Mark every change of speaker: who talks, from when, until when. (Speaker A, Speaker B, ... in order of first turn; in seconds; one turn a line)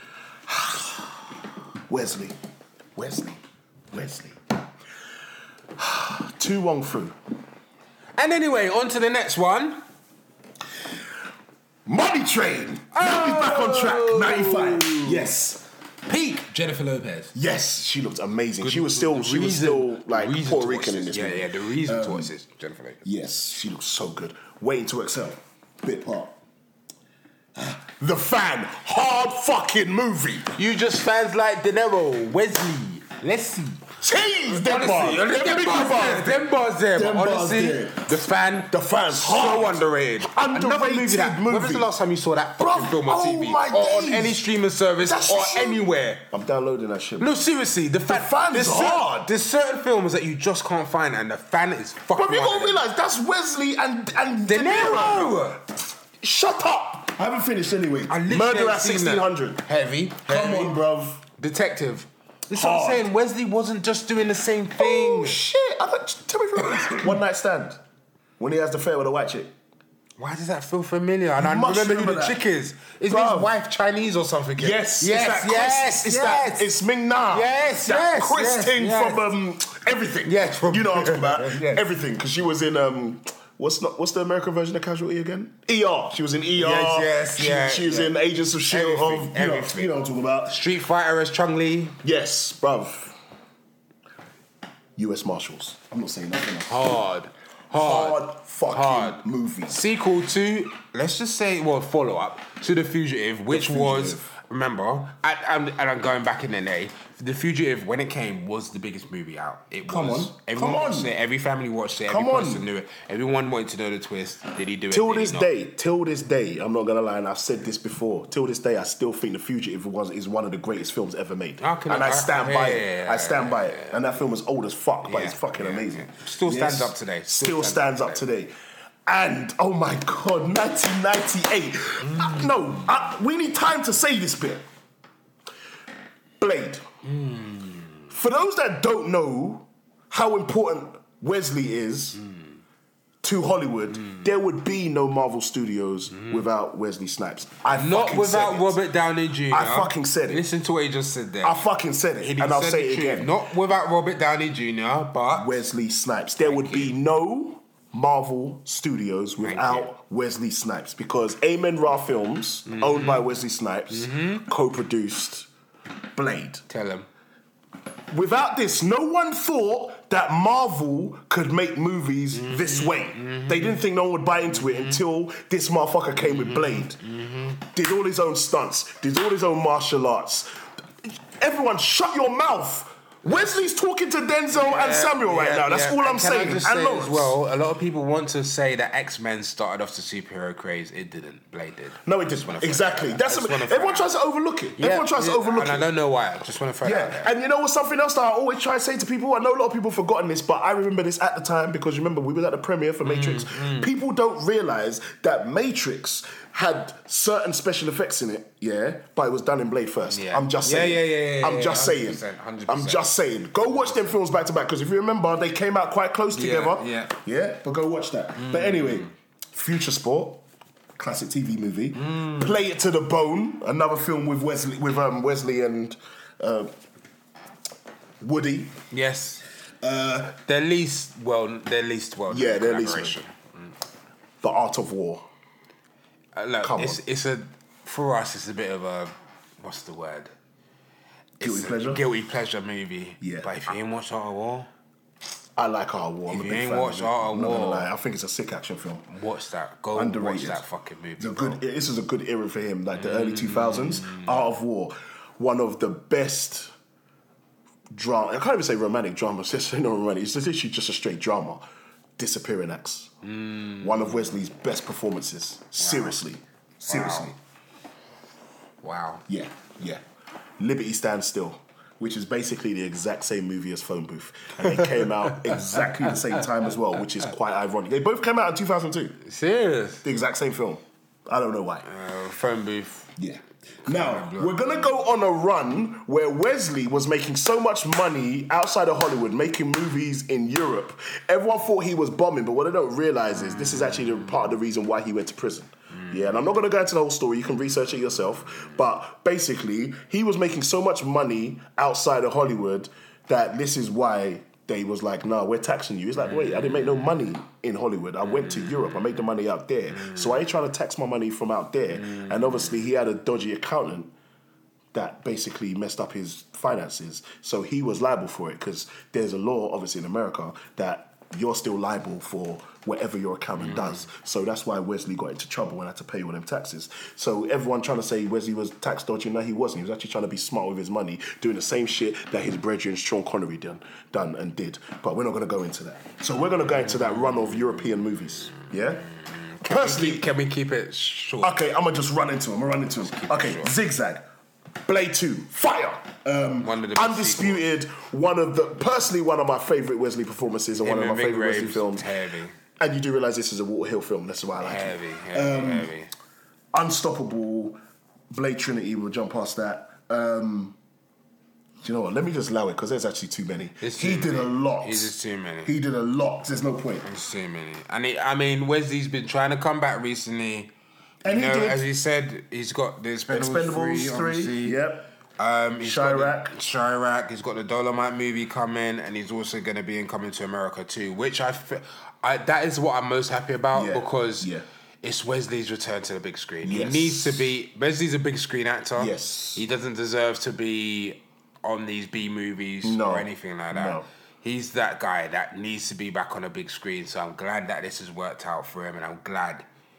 Speaker A: 0.5-1.2
Speaker A: 1.9-2.4
Speaker A: 3.0-3.4
Speaker A: 3.9-4.4
Speaker A: 5.8-7.2
Speaker B: 8.2-9.8
Speaker A: 11.9-15.7
Speaker B: 12.9-15.3
Speaker B: 16.1-17.3
Speaker A: 17.4-22.3
Speaker B: 18.6-23.0
Speaker A: 23.0-26.4
Speaker A: 27.6-30.5
Speaker B: 30.5-33.9
Speaker A: 34.0-38.1
Speaker B: 34.5-46.2
Speaker A: 38.7-41.9
Speaker A: 42.6-44.5
Speaker A: 45.0-47.4
Speaker B: 47.2-52.8
Speaker A: 48.1-49.3
Speaker A: 52.1-55.6
Speaker B: 54.5-55.6
Speaker A: 56.2-59.7
Speaker B: 58.1-60.8
Speaker A: 60.2-61.2
Speaker B: 61.4-65.4
Speaker A: 62.5-63.1
Speaker A: 64.8-67.8
Speaker B: 66.6-67.1
Speaker A: 68.4-69.5
Speaker B: 70.2-76.7
Speaker A: 71.4-72.4
Speaker A: 73.1-73.5
Speaker A: 74.6-90.6
Speaker B: 77.3-79.3
Speaker B: 80.2-81.8
Speaker B: 86.5-89.9
Speaker B: 90.5-92.0
Speaker A: 92.0-93.2
Speaker A: 95.0-97.1
Speaker B: 96.7-115.5
Speaker A: 97.7-99.8
Speaker A: 103.5-104.3
Speaker A: 109.8-111.2
Speaker A: 112.1-112.7
Speaker A: 114.9-128.5
Speaker B: 121.6-124.0
Speaker B: 125.0-128.2
Speaker A: 129.1-134.7
Speaker B: 132.0-132.9
Speaker A: 136.4-136.8
Speaker B: 137.1-138.1
Speaker A: 138.1-142.2
Speaker A: 143.2-148.8
Speaker B: 146.1-146.4
Speaker B: 147.7-151.7
Speaker A: 149.5-150.5
Speaker A: 151.4-153.3
Speaker B: 152.2-155.6
Speaker A: 155.3-165.5
Speaker B: 156.4-157.0
Speaker B: 159.4-159.9
Speaker B: 162.7-163.3
Speaker B: 163.9-164.5
Speaker A: 166.2-166.6
Speaker B: 166.7-167.1
Speaker A: 168.1-177.0
Speaker B: 172.3-173.8
Speaker B: 174.5-175.0
Speaker B: 176.2-177.6
Speaker A: 177.6-180.5
Speaker A: 181.1-187.4
Speaker B: 184.5-194.1
Speaker A: 192.0-195.9
Speaker B: 194.8-197.3
Speaker A: 196.8-220.4
Speaker B: 203.0-203.9
Speaker B: 210.1-213.2
Speaker B: 216.3-217.1
Speaker B: 218.4-219.1
Speaker A: 221.0-226.7
Speaker B: 221.9-222.6
Speaker A: 228.2-228.8
Speaker B: 228.9-229.4
Speaker A: 229.8-230.4
Speaker B: 230.2-233.4
Speaker A: 232.3-233.2
Speaker A: 234.4-235.3
Speaker B: 236.3-240.3
Speaker A: 236.6-237.0
Speaker A: 241.4-242.1
Speaker B: 241.4-244.7
Speaker A: 243.2-243.5
Speaker A: 245.6-249.1
Speaker B: 246.3-247.9
Speaker B: 249.1-251.6
Speaker A: 249.9-250.7
Speaker A: 251.2-256.7
Speaker B: 253.0-254.6
Speaker A: 257.9-261.6
Speaker A: 262.2-263.2
Speaker B: 263.2-264.2
Speaker A: 263.8-267.4
Speaker B: 265.8-266.2
Speaker B: 266.9-267.4
Speaker B: 268.8-269.3
Speaker A: 269.3-270.0
Speaker A: 270.6-279.2
Speaker B: 275.7-276.0
Speaker B: 279.2-280.1
Speaker A: 280.0-281.9
Speaker B: 281.8-283.1
Speaker A: 283.2-314.1
Speaker B: 283.8-284.9
Speaker B: 310.0-310.3
Speaker A: 314.9-339.1
Speaker B: 323.6-324.1
Speaker B: 339.2-341.6
Speaker A: 339.6-340.3
Speaker A: 341.4-344.3
Speaker B: 343.0-343.8
Speaker A: 344.9-352.1
Speaker B: 346.6-347.7
Speaker B: 350.8-352.6
Speaker A: 352.8-355.9
Speaker B: 354.6-356.1
Speaker A: 356.7-357.8
Speaker A: 358.3-360.8
Speaker A: 361.8-367.1
Speaker B: 363.8-365.7
Speaker B: 367.0-370.7
Speaker A: 371.2-371.9
Speaker B: 371.2-374.8
Speaker A: 373.3-375.1
Speaker B: 375.4-399.7
Speaker A: 375.8-376.6
Speaker A: 383.7-384.7
Speaker A: 386.6-387.6
Speaker A: 388.9-389.7
Speaker A: 392.8-394.1